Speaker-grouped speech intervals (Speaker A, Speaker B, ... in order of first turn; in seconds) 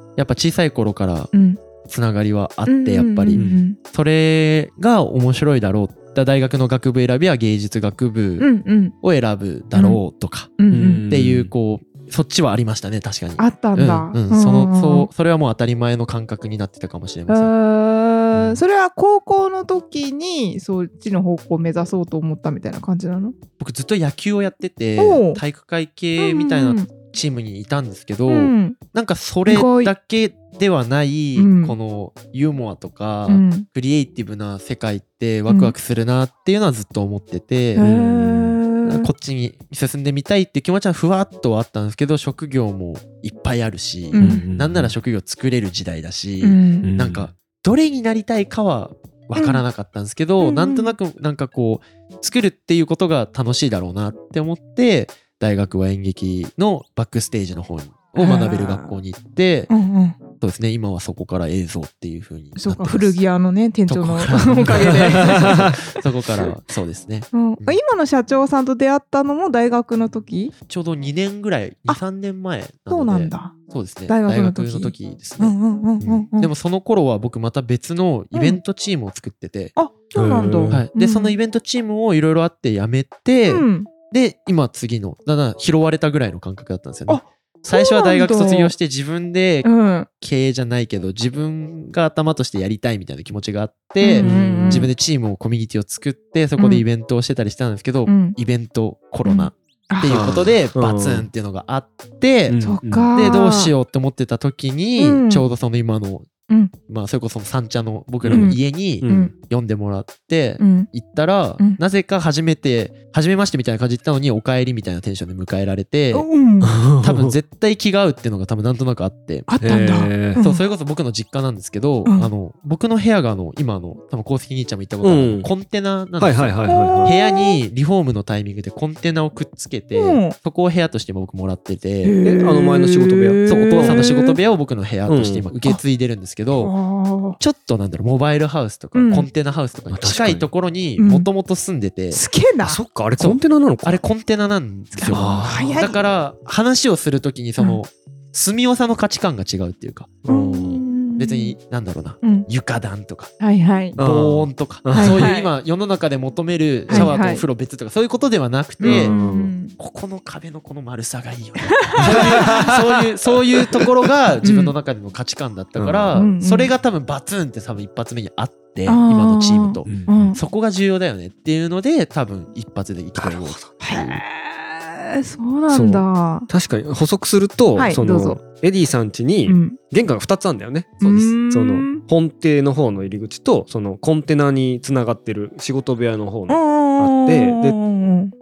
Speaker A: 0.2-1.3, 1.9-8.5, 9.0-17.5, 23.6-37.9, 38.8-59.7, 60.4-63.2, 63.9-67.8, 70.7-79.7, 80.7-106.3, 106.9-116.3, 117.0-119.5, 120.4-132.2, 133.5-136.8, 137.4-142.2, 143.2-150.2, 151.2-153.3, 154.0-159.1, 159.8-174.2
Speaker B: 1.3-1.6, 2.7-3.8, 8.4-8.9, 9.8-10.0, 10.6-11.1, 13.4-15.1, 17.3-23.4, 25.0-25.4, 26.2-26.9, 28.3-28.8, 29.5-29.9, 31.4-31.8, 33.3-33.7, 35.5-35.8, 37.8-39.1, 44.1-44.4, 46.4-46.9, 49.4-49.6, 50.4-50.9, 58.2-59.0, 59.7-60.2, 62.6-65.8, 67.3-70.5, 72.9-73.5, 74.1-76.5, 78.3-78.6, 79.8-81.4, 83.5-83.9, 87.1-88.7, 89.7-90.1, 94.0-94.9, 96.6-96.8, 98.1-98.4, 99.2-100.3, 102.6-103.7, 105.0-105.5, 108.3-109.3, 110.6-110.9, 116.1-116.8, 119.5-120.6, 122.0-122.3, 126.7-127.6, 130.0-130.3, 132.0-134.4, 136.6-137.4, 138.9-139.3, 141.0-141.3, 142.1-142.8, 144.9-146.0, 150.3-151.6, 152.2-152.5, 153.4-154.0, 154.9-155.5, 156.9-157.4, 158.8-159.7, 161.7-162.6, 164.4-164.8, 166.1-166.7, 168.9-170.4, 173.8-176.5, 177.8-178.4, 179.5-179.8, 181.0-182.1, 186.5-188.3
Speaker C: 3.4-3.6, 10.7-11.5, 37.8-38.6, 44.2-45.0, 46.8-47.3, 65.0-65.8, 80.2-80.9, 94.2-94.9, 100.0-101.3, 102.5-103.4, 108.2-109.3, 116.6-117.4, 119.6-120.4, 125.0-125.5, 126.2-127.1, 132.2-134.1, 135.1-135.6, 139.9-140.5, 142.6-144.0, 145.1-145.9, 150.2-150.8, 154.0-155.3, 156.9-157.1, 158.8-159.5, 162.0-163.9, 165.8-166.2, 169.9-170.3, 173.2-173.7, 175.7-187.8